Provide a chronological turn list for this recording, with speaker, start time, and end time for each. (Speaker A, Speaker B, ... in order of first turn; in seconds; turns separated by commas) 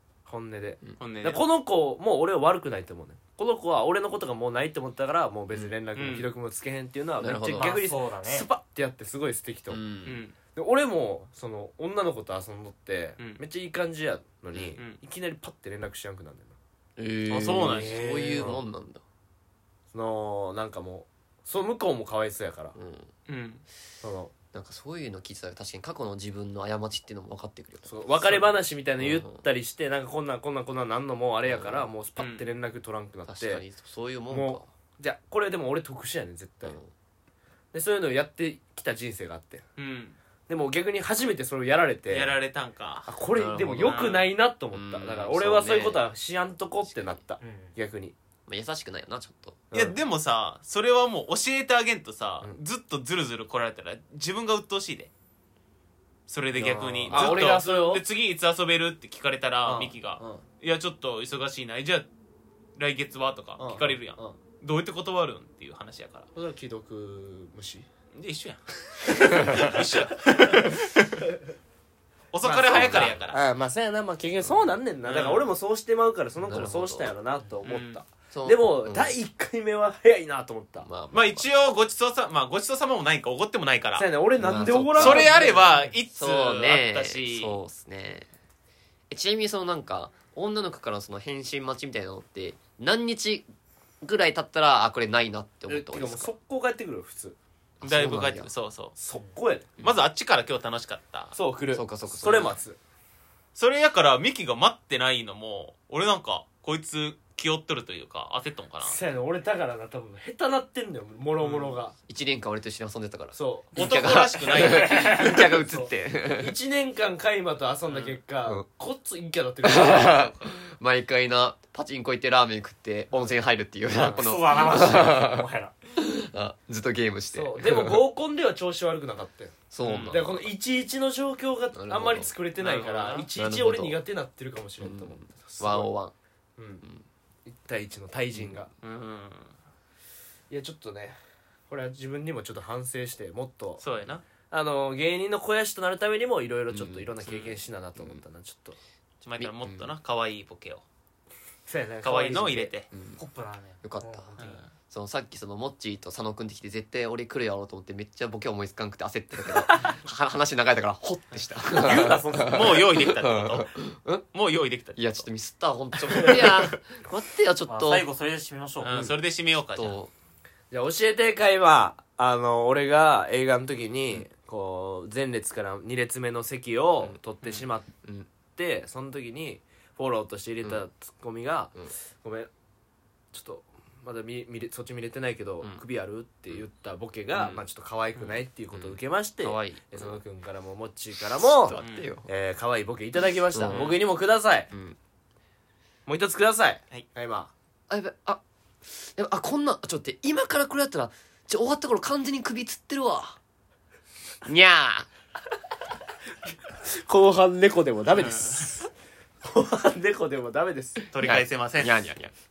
Speaker A: 0.3-9.8, Speaker B: 1.0-1.4, Speaker B: 6.0-6.3, Speaker C: 7.2-7.8, Speaker D: 7.5-8.5, Speaker C: 9.7-10.2, Speaker B: 10.1-10.3, Speaker A: 10.5-16.6, Speaker B: 14.6-15.0, Speaker C: 17.0-19.0, Speaker B: 17.3-18.1, Speaker D: 17.7-18.5, Speaker A: 18.4-18.6, Speaker A: 19.9-22.8, Speaker C: 22.8-23.1, Speaker B: 23.3-23.6, Speaker A: 24.0-24.3, Speaker C: 24.5-28.5, Speaker A: 27.9-33.6, Speaker C: 29.0-29.4, Speaker C: 31.5-31.9, Speaker B: 32.2-32.5, Speaker C: 33.3-34.7, Speaker A: 34.3-36.8, Speaker C: 36.6-36.9, Speaker A: 37.7-39.6, Speaker B: 39.8-40.2, Speaker A: 40.5-42.3, Speaker B: 42.1-43.1, Speaker A: 43.1-48.2, Speaker C: 43.3-44.1, Speaker B: 43.8-44.3, Speaker C: 44.7-46.0, Speaker D: 47.4-47.7, Speaker C: 48.5-49.6, Speaker A: 49.7-50.0, Speaker B: 49.7-55.1, Speaker B: 56.3-62.1, Speaker A: 56.6-58.0, Speaker C: 57.0-57.4, Speaker A: 59.6-60.4, Speaker B: 62.8-66.3, Speaker A: 63.6-64.4, Speaker A: 66.3-67.9, Speaker B: 68.2-71.2, Speaker A: 69.2-69.8, Speaker B: 72.3-73.4, Speaker A: 72.4-80.9, Speaker C: 72.7-73.2, Speaker B: 75.0-75.5, Speaker C: 76.4-77.1, Speaker B: 77.7-78.0, Speaker C: 78.3-79.2, Speaker C: 80.8-81.5, Speaker B: 81.1-84.1, Speaker A: 84.0-85.7, Speaker C: 84.4-85.5, Speaker B: 85.0-87.6, Speaker D: 85.7-86.0, Speaker C: 86.1-88.3, Speaker C: 89.1-93.5, Speaker C: 94.0-96.3, Speaker A: 95.7-97.4, Speaker C: 97.8-98.5, Speaker B: 97.8-99.0, Speaker A: 99.0-99.7, Speaker B: 99.8-101.4, Speaker A: 101.3-102.8, Speaker C: 101.7-102.6, Speaker B: 103.6-109.0, Speaker A: 108.8-111.9, Speaker B: 111.4-111.8, Speaker C: 112.1-116.5, Speaker A: 113.3-120.4, Speaker B: 113.8-115.1, Speaker B: 117.9-118.2, Speaker C: 119.6-128.0, Speaker A: 124.0-124.2, Speaker D: 124.1-125.7, Speaker A: 127.3-129.6, Speaker C: 129.7-130.5, Speaker B: 129.8-130.2, Speaker A: 130.1-135.9, Speaker C: 131.7-132.3, Speaker B: 132.6-133.3, Speaker C: 133.3-134.0, Speaker C: 134.8-136.1, Speaker A: 136.6-136.8, Speaker A: 137.5-138.7, Speaker B: 138.8-139.5, Speaker A: 140.5-141.2, Speaker A: 141.7-143.8, Speaker B: 143.8-144.2, Speaker A: 144.5-148.8, Speaker C: 146.7-147.1, Speaker B: 147.2-147.6, Speaker C: 148.0-148.2, Speaker B: 149.2-150.8, Speaker C: 149.4-149.9, Speaker A: 151.7-152.7, Speaker B: 152.0-152.9, Speaker C: 152.9-153.2, Speaker D: 153.2-154.6, Speaker C: 153.8-154.3, Speaker B: 154.4-154.7, Speaker C: 154.9-164.2, Speaker D: 161.7-162.8, Speaker B: 162.4-163.7, Speaker B: 164.3-165.2, Speaker C: 165.0-168.1, Speaker A: 166.1-166.7, Speaker D: 167.7-169.1, Speaker B: 168.8-170.0, Speaker C: 169.8-170.1, Speaker A: 170.7-177.9, Speaker A: 178.5-182.5, Speaker A: 183.3-194.7, Speaker C: 187.3-187.6, Speaker C: 188.2-190.2, Speaker C: 191.3-192.3, Speaker B: 191.8-192.1, Speaker C: 193.5-194.0, Speaker B: 193.7-194.0, Speaker C: 194.7-195.0, Speaker A: 196.1-197.5, Speaker C: 197.9-203.4, Speaker C: 204.4-205.1, Speaker A: 206.9-208.9, Speaker B: 208.1-208.7, Speaker A: 209.4-211.0, Speaker B: 211.1-211.9, Speaker C: 211.2-212.3